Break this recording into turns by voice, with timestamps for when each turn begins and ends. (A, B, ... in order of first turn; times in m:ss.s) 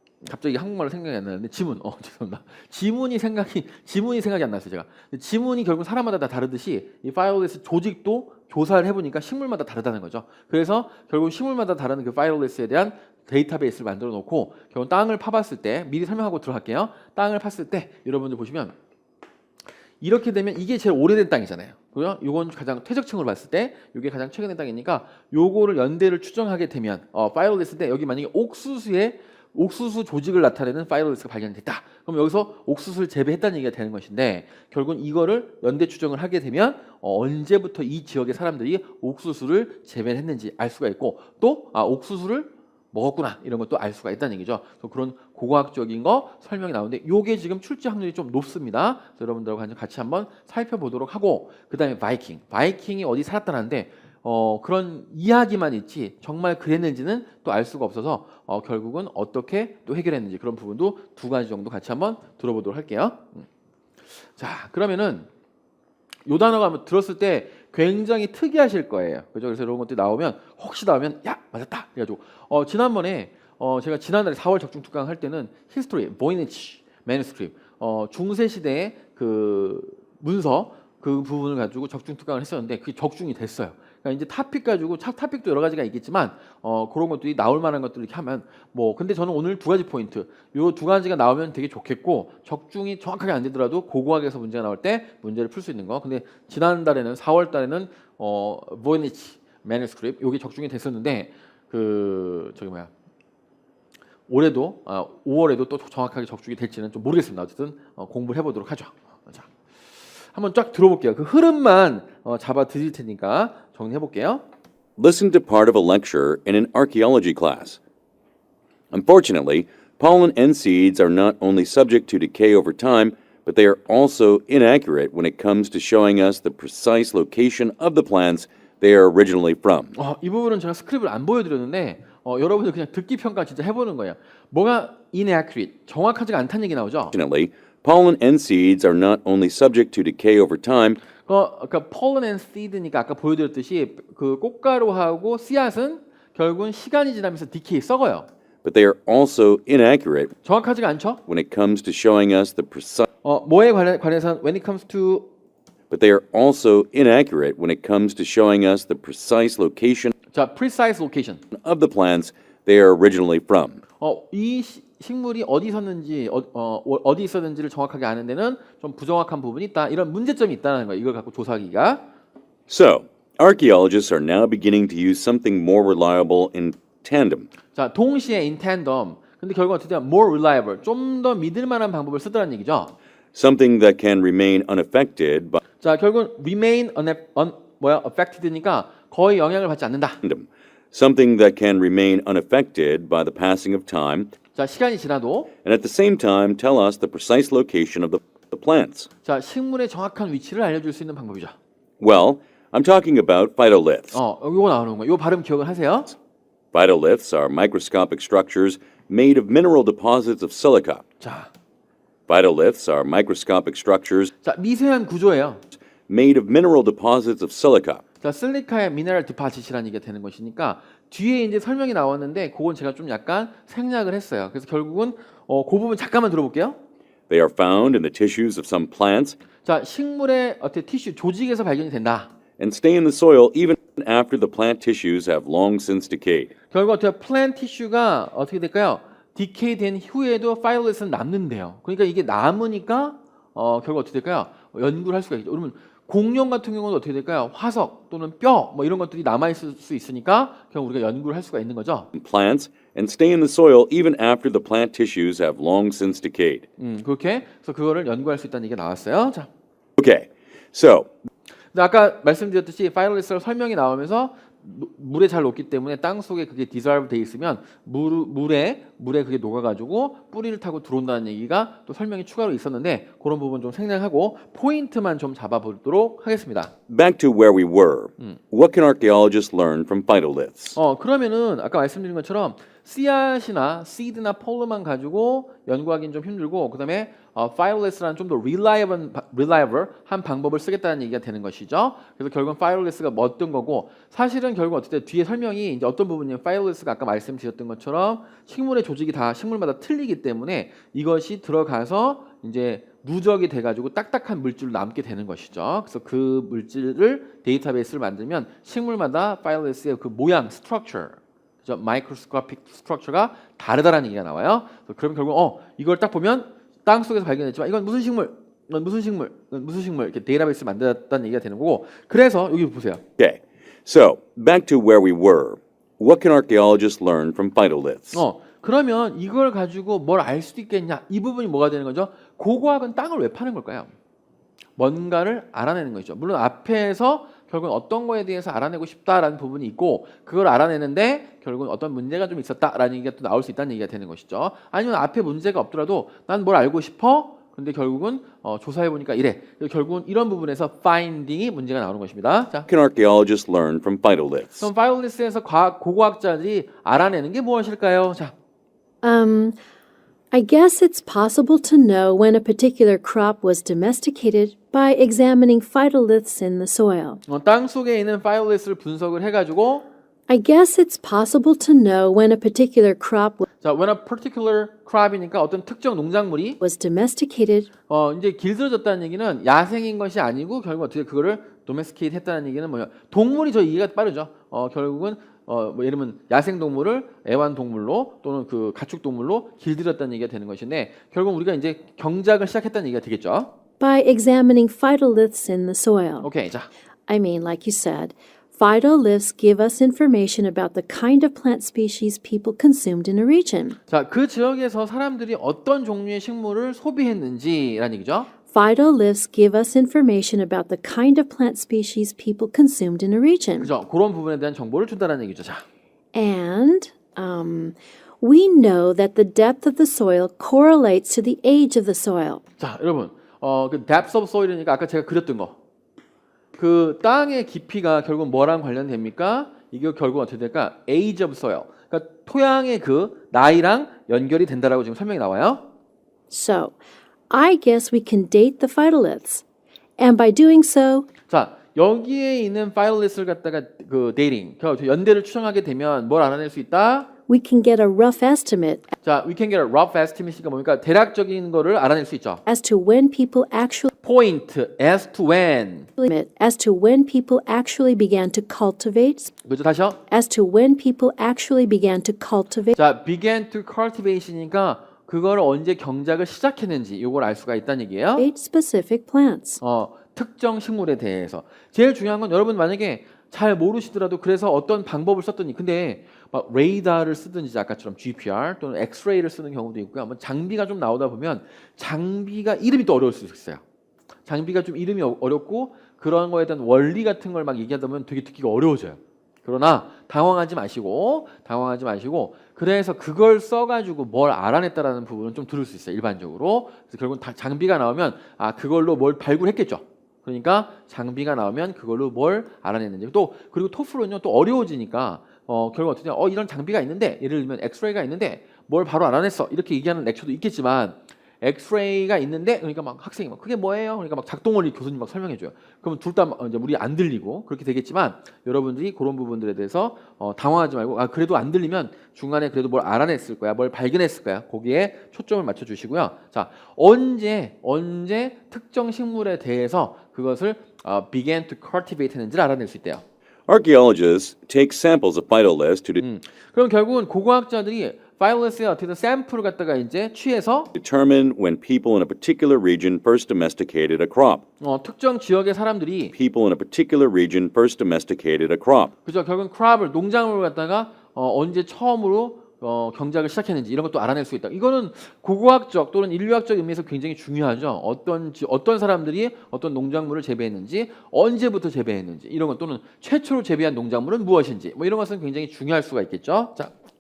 0:00.2-0:18.8 A
0:20.0-1:03.5 A
1:04.4-1:05.3 A
1:06.2-1:42.9 A
1:44.3-1:49.5 A
1:50.3-1:54.4 A
1:55.0-1:57.8 B
1:58.9-2:09.9 B
2:10.0-2:17.1 A
2:17.1-2:21.0 B
2:21.3-2:28.3 A
2:28.6-2:30.3 B
2:30.4-2:31.2 A
2:31.3-2:33.0 B
2:33.2-2:35.3 A
2:35.9-2:40.2 B
2:40.3-2:41.4 A
2:41.5-2:43.8 B
2:44.0-2:52.0 A
2:52.7-2:57.5 B
2:57.7-3:02.9 A
3:03.3-3:05.6 B
3:05.8-3:10.2 A
3:10.2-3:14.3 B
3:14.6-3:15.5 A
3:15.6-3:19.1 B
3:19.2-3:21.6 A
3:22.0-3:24.2 B
3:24.1-3:26.2 A
3:26.7-3:31.0 B
3:31.2-3:31.5 A
3:32.3-3:34.3 B
3:34.4-3:35.6 A
3:36.1-3:38.0 B
3:38.2-3:46.8 A
3:47.3-3:49.4 B
3:49.6-3:52.3 A
3:52.6-3:56.5 B
3:56.7-4:12.1 A
4:12.2-4:16.7 B
4:16.8-4:19.5 A
4:20.0-4:21.1 B
4:21.7-4:36.7 A
4:36.9-4:40.8 B
4:40.8-5:23.0 A
5:23.2-5:28.2 B
5:28.1-5:33.9 A
5:34.8-5:52.7 A
5:52.7-5:54.7 B
5:54.6-5:58.3 A
5:59.0-5:59.6 C
6:00.3-6:07.2 C
6:07.3-6:09.9 A
6:10.3-6:13.4 C
6:13.6-6:16.6 A
6:16.6-6:17.7 C
6:17.9-6:33.5 A
6:33.8-6:36.3 C
6:36.2-6:36.7 A
6:37.1-6:43.8 C
6:43.9-6:48.3 A
6:48.5-6:53.7 C
6:53.6-6:55.6 A
6:56.1-7:02.4 C
7:02.6-7:05.6 A
7:06.6-7:15.7 A
7:16.3-7:16.8 C
7:17.3-7:19.4 C
7:20.0-7:21.1 C
7:21.3-7:27.1 A
7:27.3-7:28.9 C
7:29.0-7:32.4 A
7:32.5-7:33.9 C
7:34.0-7:35.9 A
7:36.0-7:39.3 C
7:39.4-7:40.0 A
7:40.1-7:42.8 C
7:42.8-7:48.3 A
7:48.2-7:49.6 C
7:49.6-8:03.6 A
8:04.3-8:53.0 A
8:53.5-8:56.0 B
8:56.0-9:00.7 A
9:00.8-9:04.4 B
9:04.6-9:06.2 A
9:06.2-9:08.9 B
9:09.1-9:26.7 A